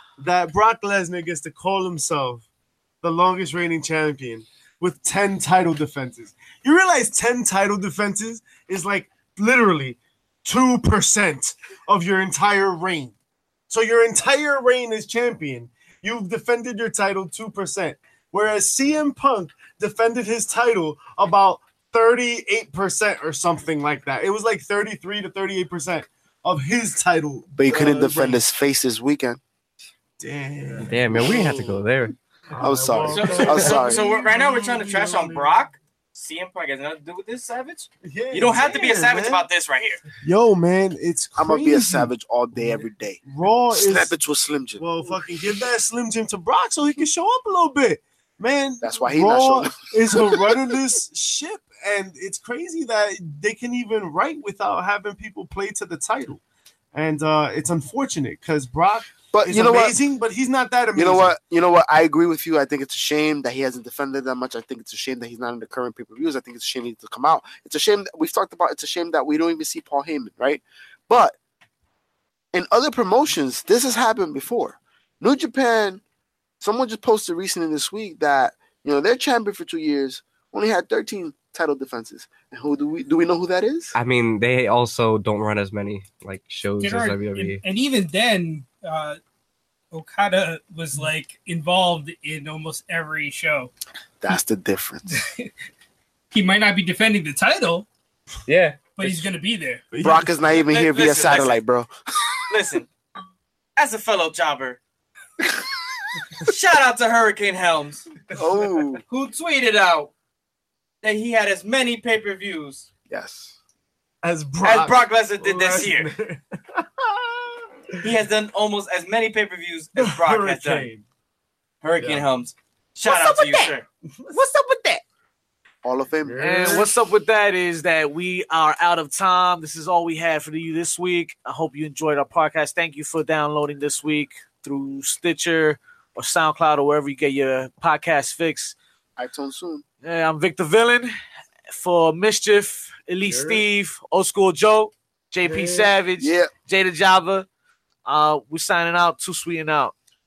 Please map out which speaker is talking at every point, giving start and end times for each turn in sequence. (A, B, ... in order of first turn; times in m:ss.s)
0:00.2-0:02.4 A
0:03.0-0:13.1 A
0:13.7-0:28.4 A
0:27.5-0:29.4 B
0:30.2-0:31.8 A
0:30.8-0:32.1 C
0:32.5-0:35.5 A
0:32.5-0:34.0 B
0:33.1-0:40.0 D
0:38.0-0:39.4 A
0:40.2-0:44.1 A
0:41.4-0:45.1 B
0:44.8-0:56.4 A
0:48.8-0:50.5 B
0:56.9-1:01.4 A
0:59.3-1:00.0 B
1:00.9-1:11.4 B
1:12.5-1:16.0 B
1:16.6-1:23.9 B
1:23.9-1:27.6 C
1:26.8-1:29.2 E
1:29.9-1:33.7 E
1:34.2-1:35.2 B
1:35.1-1:35.5 E
1:36.3-1:37.9 E
1:38.5-1:39.2 C
1:38.9-1:39.8 E
1:39.9-1:40.3 A
1:40.0-1:41.9 B
1:40.7-1:41.6 D
1:42.5-1:42.9 D
1:43.8-1:44.8 D
1:46.4-1:48.1 D
1:48.3-1:49.0 B
1:49.1-1:50.1 D
1:51.0-1:52.9 D
1:53.1-1:53.5 B
1:54.2-1:57.6 A
1:54.6-1:56.1 D
1:58.0-2:00.9 D
2:00.0-2:01.0 A
2:01.8-2:03.9 D
2:02.0-2:02.3 A
2:03.0-2:03.7 F
2:04.3-2:05.0 F
2:05.8-2:06.9 B
2:06.2-2:06.9 A
2:06.4-2:18.8 F
2:19.2-2:19.8 B
2:20.0-2:21.1 F
2:21.7-2:27.5 F
2:23.2-2:23.6 A
2:25.4-2:25.9 A
2:26.2-2:26.5 B
2:28.0-2:29.9 F